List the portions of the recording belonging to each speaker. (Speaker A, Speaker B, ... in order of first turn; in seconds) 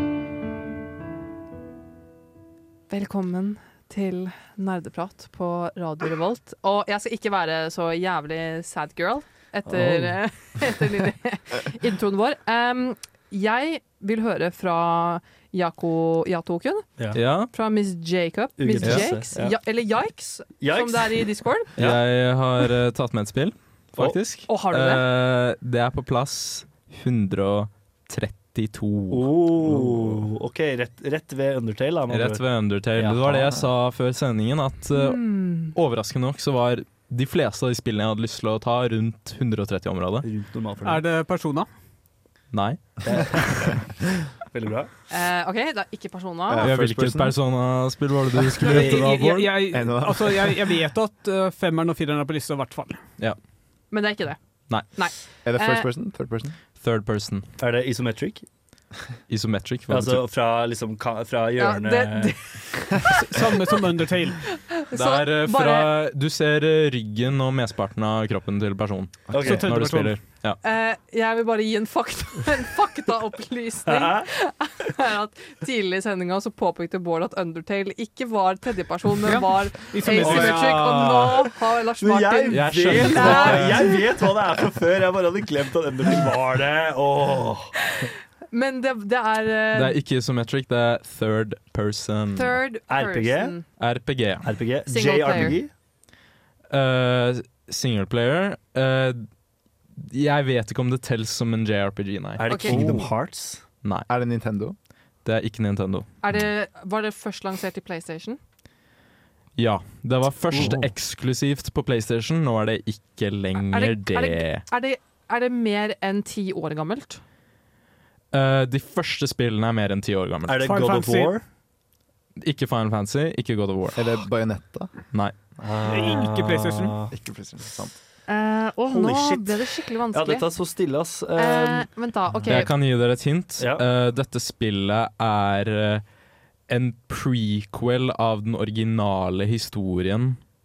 Speaker A: 2.9-16.9, 17.4-21.7, 24.5-25.0, 34.9-35.8, 45.1-46.7, 53.9-54.4, 54.9-55.9, 61.6-63.5, 64.7-65.9, 70.6-84.0, 87.9-90.0, 92.3-93.6, 94.9-95.6, 102.5-102.8, 106.2-108.4, 113.6-117.2, 128.3-130.5, 131.3-132.7
Speaker B: 9.7-10.2, 18.6-19.6, 20.6-22.0, 29.1-33.5, 40.2-41.0, 43.0-43.8, 44.5-44.9, 57.6-58.4, 59.9-62.4, 69.3-69.7, 73.8-74.3, 80.2-80.7, 82.0-87.7, 92.9-93.6, 94.4-95.7, 102.4-103.6, 120.5-121.4, 125.6-127.1, 128.9-131.9, 133.6-133.8
Speaker C: 17.1-17.5, 18.8-19.1, 21.8-29.3, 32.1-40.2, 42.5-43.6, 46.6-49.7, 56.8-57.5, 59.3-60.2, 64.9-70.6, 80.2-81.4, 82.5-84.0, 89.7-92.6, 93.8-94.5, 96.7-99.2, 100.0-102.9, 105.2-106.1, 109.6-114.7, 118.3-120.8, 122.4-124.0, 132.4-136.0, 136.7-140.4
Speaker D: 40.8-41.7, 48.7-53.0, 63.1-64.4, 69.4-70.1, 79.2-80.8, 120.6-121.3, 125.9-127.0
Speaker E: 46.5-47.4, 49.7-50.6, 55.4-56.5, 69.3-69.6, 102.7-103.1, 104.1-104.8, 110.5-110.9, 124.0-125.0, 127.1-128.0